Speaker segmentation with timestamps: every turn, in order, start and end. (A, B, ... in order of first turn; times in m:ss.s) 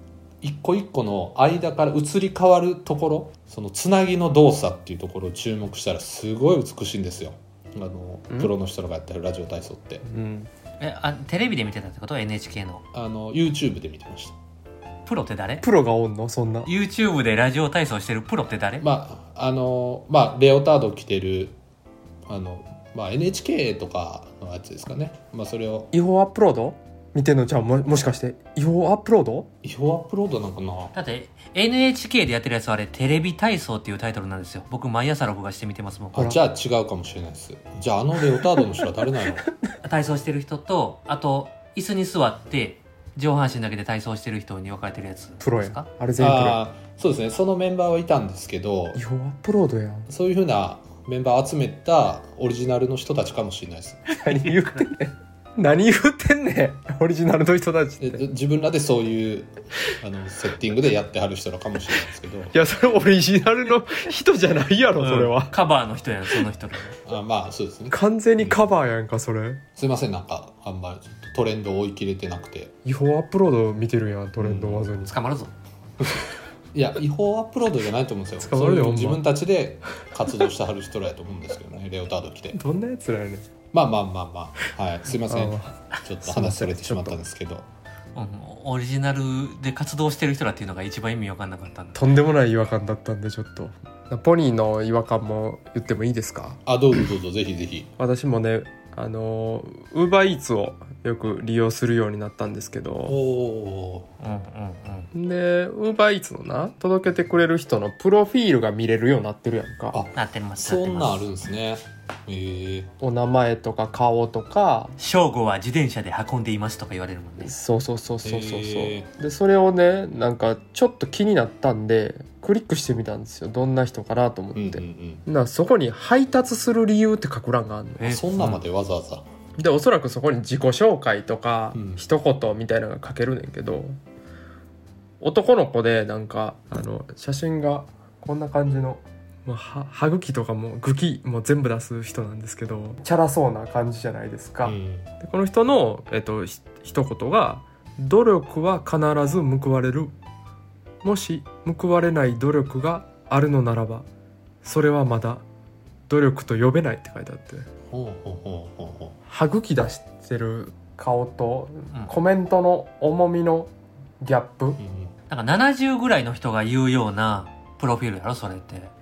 0:00.4-0:10.0 A
0:10.0-0:10.5 B
0:10.8-0:12.8 C
0:12.9-0:14.4 A
0:15.1-0:15.6 C
0:15.6-0:16.7 B
0:16.7-0:18.8 C
0:18.8-0:21.6 A
0:22.3-0:25.9 A
0:25.9-0:29.5 B
0:29.6-0:30.9 A
0:30.9-0:36.2 C
0:36.1-0:39.4 A
0:38.3-0:39.5 B
0:39.8-0:45.9 C
0:45.4-0:46.6 B
0:46.2-0:49.0 A
0:48.9-0:50.1 B
0:50.1-0:54.2 A
0:54.2-0:58.3 B
0:58.0-1:02.5 A
1:02.5-1:05.5 B
1:05.0-1:07.0 C
1:07.0-1:08.7 A
1:07.9-1:09.6 B
1:09.8-1:12.7 A
1:12.8-1:15.2 B
1:14.4-1:14.9 A
1:15.1-1:15.5 C
1:16.7-1:22.6 A
1:18.4-1:19.2 B
1:22.5-1:23.5 B
1:23.7-1:27.7 A
1:25.2-1:27.2 B
1:28.2-1:32.0 C
1:32.0-1:36.6 B
1:36.7-1:37.9 A
1:38.0-1:43.2 B
1:43.1-1:44.1 A
1:44.2-1:45.1 C
1:45.1-1:50.0 B
1:49.9-1:52.9 A
1:50.2-1:51.2 C
1:53.0-1:54.9 B
1:55.0-1:57.6 C
1:57.4-2:08.2 B
1:58.2-1:59.1 A
2:04.6-2:05.2 A
2:08.0-2:08.6 C
2:08.0-2:09.2 A
2:09.6-2:14.0 B
2:11.8-2:12.0 A
2:15.2-2:30.1 B
2:24.6-2:25.1 A
2:31.0-2:34.1 B
2:34.6-2:35.4 B
2:36.1-2:37.7 B
2:37.9-2:39.2 A
2:39.3-2:44.8 B
2:44.8-2:45.1 A
2:45.3-2:48.9 C